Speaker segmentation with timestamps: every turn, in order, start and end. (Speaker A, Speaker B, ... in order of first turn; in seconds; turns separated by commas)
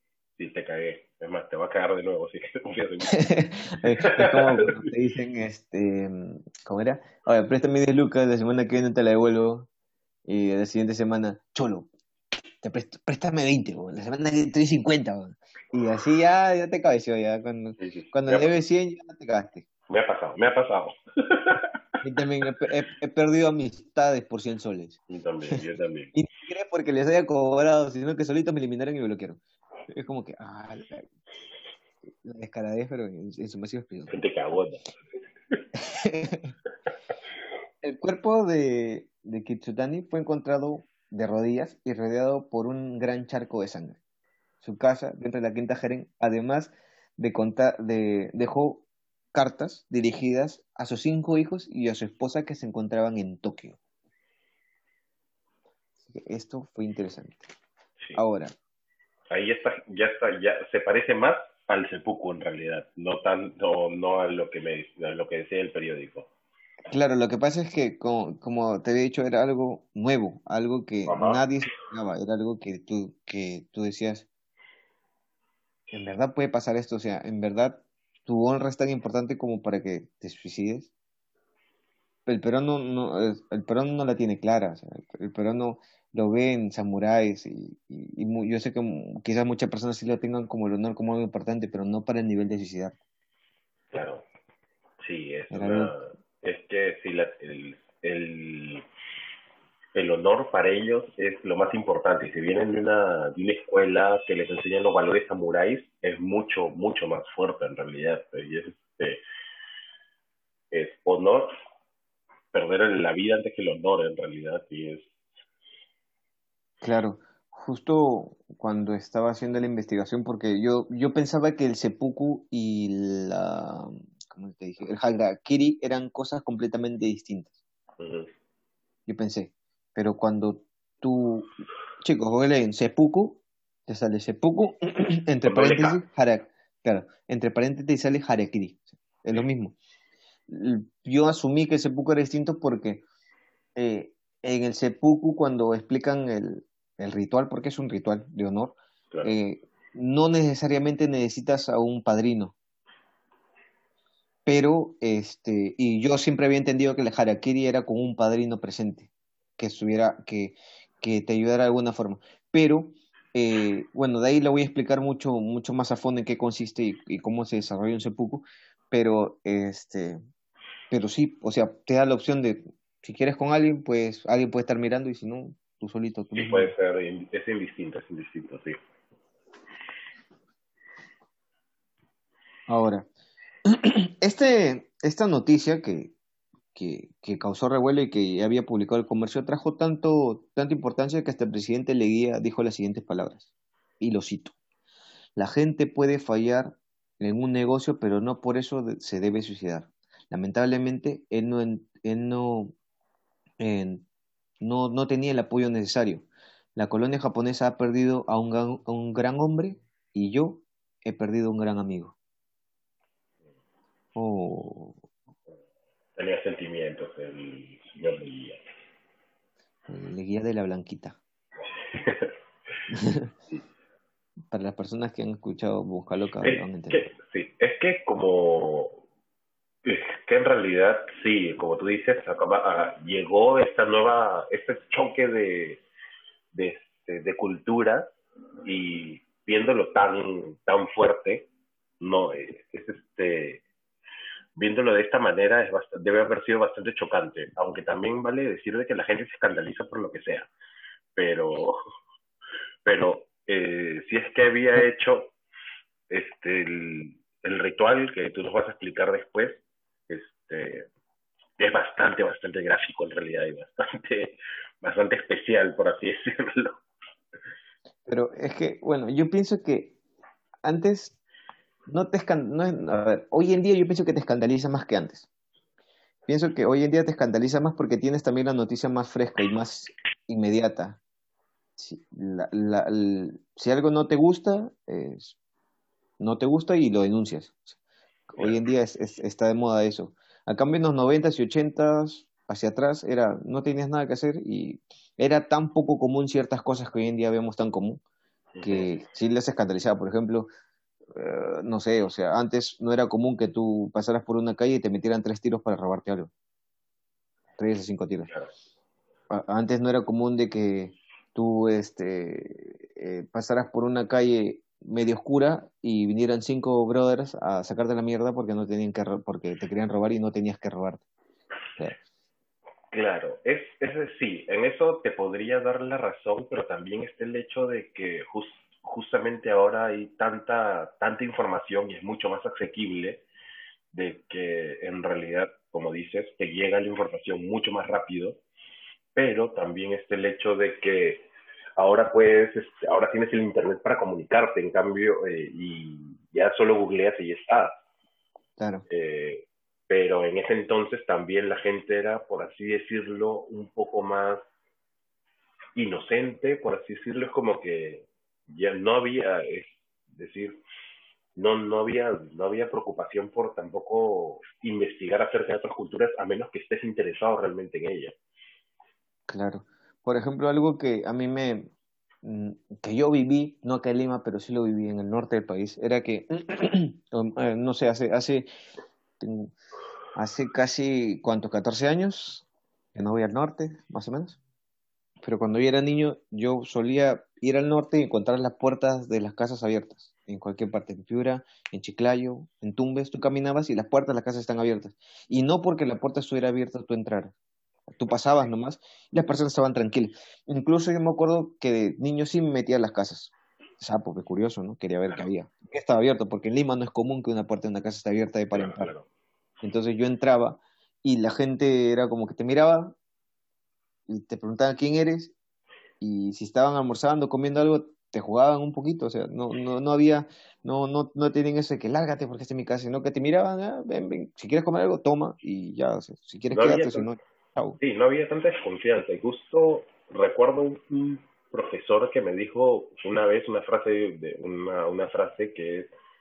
Speaker A: 0.4-3.2, Speaker B: 3.1-9.7, Speaker A: 3.8-4.8, Speaker B: 10.3-11.9, Speaker B: 12.6-19.6, Speaker A: 17.8-18.5, Speaker A: 19.9-21.8, Speaker B: 22.0-25.0, Speaker A: 25.1-26.1, Speaker B: 25.5-31.1, Speaker B: 32.2-34.1, Speaker A: 34.1-34.9, Speaker B: 35.7-36.5, Speaker B: 37.8-44.0, Speaker B: 44.6-53.8, Speaker B: 56.1-57.5, Speaker B: 58.2-58.5, Speaker A: 59.3-66.3, Speaker B: 66.9-74.3, Speaker A: 71.1-71.4, Speaker B: 75.9-80.9, Speaker B: 82.3-93.0, Speaker A: 93.9-94.3, Speaker A: 95.0-98.8, Speaker B: 95.5-96.0, Speaker A: 100.0-109.2, Speaker A: 110.7-111.5, Speaker A: 112.5-115.1, Speaker B: 116.8-127.6, Speaker A: 128.0-128.3, Speaker B: 129.1-139.8, Speaker A: 135.4-136.0, Speaker B: 140.5-143.0, Speaker B: 143.8-152.6, Speaker B: 154.5-170.2, Speaker B: 170.9-176.7, Speaker A: 176.3-178.8, Speaker B: 182.7-183.1, Speaker B: 183.7-186.1, Speaker B: 186.8-193.5, Speaker B: 194.0-194.6, Speaker B: 195.4-202.8, Speaker B: 203.6-204.1, Speaker B: 204.6-212.2, Speaker B: 214.2-215.0, Speaker A: 216.2-218.6, Speaker B: 219.9-221.2, Speaker A: 221.9-222.3, Speaker B: 222.9-223.3, Speaker B: 224.5-227.1, Speaker A: 226.4-229.0, Speaker A: 229.8-235.8, Speaker A: 236.5-238.1, Speaker A: 238.7-241.5, Speaker A: 242.0-243.6, Speaker A: 244.6-250.5, Speaker A: 251.2-251.8, Speaker A: 252.8-255.3, Speaker A: 256.1-260.9, Speaker A: 261.6-266.8, Speaker B: 268.1-270.0, Speaker B: 270.6-271.2, Speaker B: 271.9-275.3, Speaker B: 276.3-281.0, Speaker B: 281.8-285.4, Speaker B: 286.2-287.8, Speaker B: 288.3-298.0, Speaker A: 298.6-298.9, Speaker B: 298.6-300.5, Speaker B: 301.1-306.3, Speaker B: 307.6-308.3, Speaker B: 309.3-321.0, Speaker A: 322.9-333.2, Speaker A: 333.9-338.4, Speaker A: 339.1-347.7, Speaker B: 348.6-348.9, Speaker A: 348.9-354.5, Speaker A: 355.8-360.6, Speaker A: 361.4-368.1, Speaker B: 369.3-371.7, Speaker B: 372.2-378.5, Speaker B: 379.2-379.5, Speaker B: 380.1-384.4, Speaker B: 385.2-397.3, Speaker B: 397.9-408.9, Speaker A: 398.1-398.5, Speaker A: 408.5-409.1, Speaker B: 409.6-413.0, Speaker B: 414.1-415.3, Speaker B: 416.0-427.8, Speaker A: 426.5-427.1, Speaker A: 427.8-435.9